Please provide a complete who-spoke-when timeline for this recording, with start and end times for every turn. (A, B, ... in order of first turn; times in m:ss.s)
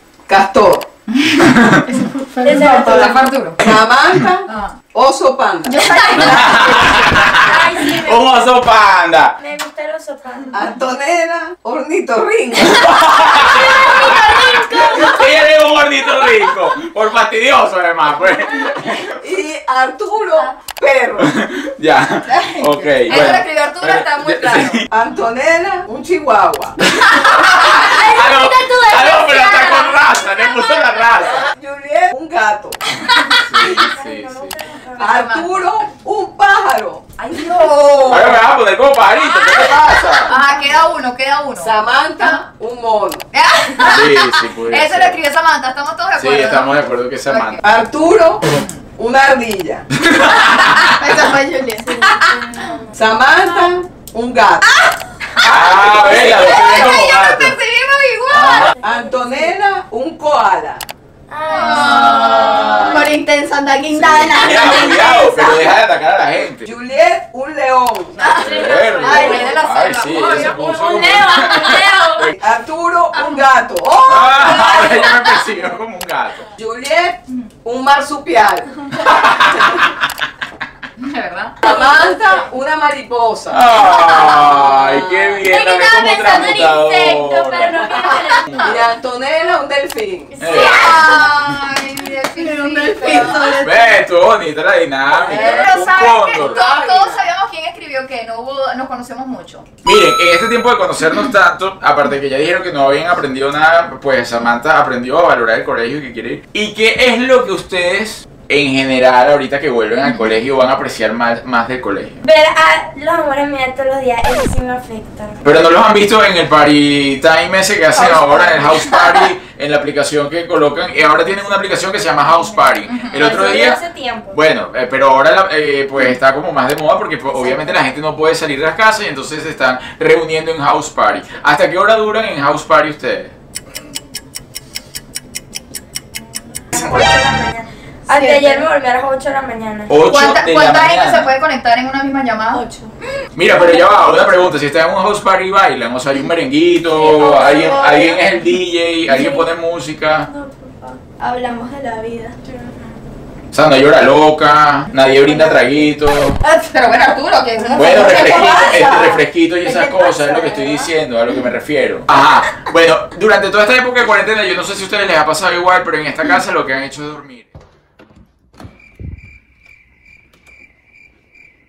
0:00.3-0:00.9 A
0:01.4-0:01.8 B
0:01.9-0:03.2 C
0:02.4-0:03.2 D
0:02.4-0:03.6 E
0:03.6-0:06.2 A
0:04.5-0:04.8 E
0:05.6-0:07.1 C
0:06.0-0:06.4 E
0:06.2-0:09.4 B
0:07.4-0:08.5 D
0:09.4-0:10.6 D
0:10.5-0:13.1 A
0:12.6-0:19.2 B
0:13.2-0:15.3 D
0:13.6-0:15.1 E
0:19.1-0:21.4 A
0:21.2-0:24.9 B
0:22.2-0:24.8 E
0:24.9-0:27.0 A
0:27.0-0:31.5 B
0:27.4-0:28.1 E
0:27.6-0:30.5 D
0:29.2-0:29.9 E
0:31.1-0:32.8 A
0:33.2-0:35.3 D
0:33.3-0:34.6 B
0:35.0-0:35.6 E
0:35.0-0:38.4 A
0:37.2-0:38.3 E
0:38.1-0:40.3 B
0:40.3-0:42.4 E
0:40.3-0:40.8 D
0:41.6-0:43.2 A
0:43.3-0:47.6 E
0:43.8-0:45.2 B
0:46.2-0:47.6 B
0:47.6-0:49.9 A
0:48.5-0:48.8 E
0:50.0-0:51.0 B
0:51.0-0:52.1 C
0:51.8-0:53.7 D
0:53.0-0:54.9 A
0:55.4-0:58.7 E
0:55.4-0:57.6 B
0:58.3-0:58.8 B
0:58.8-0:59.5 D
0:58.8-1:00.8 A
1:01.3-1:03.1 D
1:01.5-1:02.8 E
1:01.7-1:02.6 A
1:02.0-1:03.1 B
1:02.9-1:05.8 C
1:04.0-1:06.7 B
1:04.6-1:05.1 D
1:06.6-1:08.2 A
1:08.2-1:12.3 D
1:08.2-1:09.5 C
1:08.3-1:12.4 B
1:09.0-1:10.7 E
1:12.3-1:14.9 A
1:14.0-1:16.5 B
1:14.7-1:15.3 D
1:16.6-1:19.9 A
1:19.0-1:20.0 B
1:21.0-1:21.6 E
1:21.6-1:25.4 A
1:21.6-1:22.4 D
1:23.5-1:28.8 B
1:24.2-1:24.6 D
1:25.5-1:28.9 D
1:28.2-1:30.6 A
1:30.4-1:31.6 B
1:30.4-1:33.6 E
1:30.6-1:31.3 C
1:32.4-1:34.0 C
1:33.6-1:36.7 B
1:35.1-1:39.6 E
1:35.2-1:37.2 A
1:39.8-1:52.2 B
1:52.2-1:55.4 D
1:55.4-2:03.8 B
1:58.0-1:59.2 C
2:02.6-2:03.2 E
2:03.1-2:04.4 D
2:04.3-2:13.3 B
2:16.7-2:19.9 D
2:18.1-2:18.7 C
2:19.9-2:21.3 B
2:20.1-2:22.6 E
2:22.5-2:23.0 C
2:23.4-2:30.3 B
2:27.0-2:28.2 D
2:27.2-2:28.2 C
2:29.1-2:29.5 D
2:30.3-2:31.0 D
2:31.2-2:32.4 C
2:32.5-2:32.8 D
2:33.5-2:36.4 B
2:35.2-2:35.7 C
2:36.4-2:38.9 E
2:37.6-2:40.9 C
2:37.8-2:47.5 B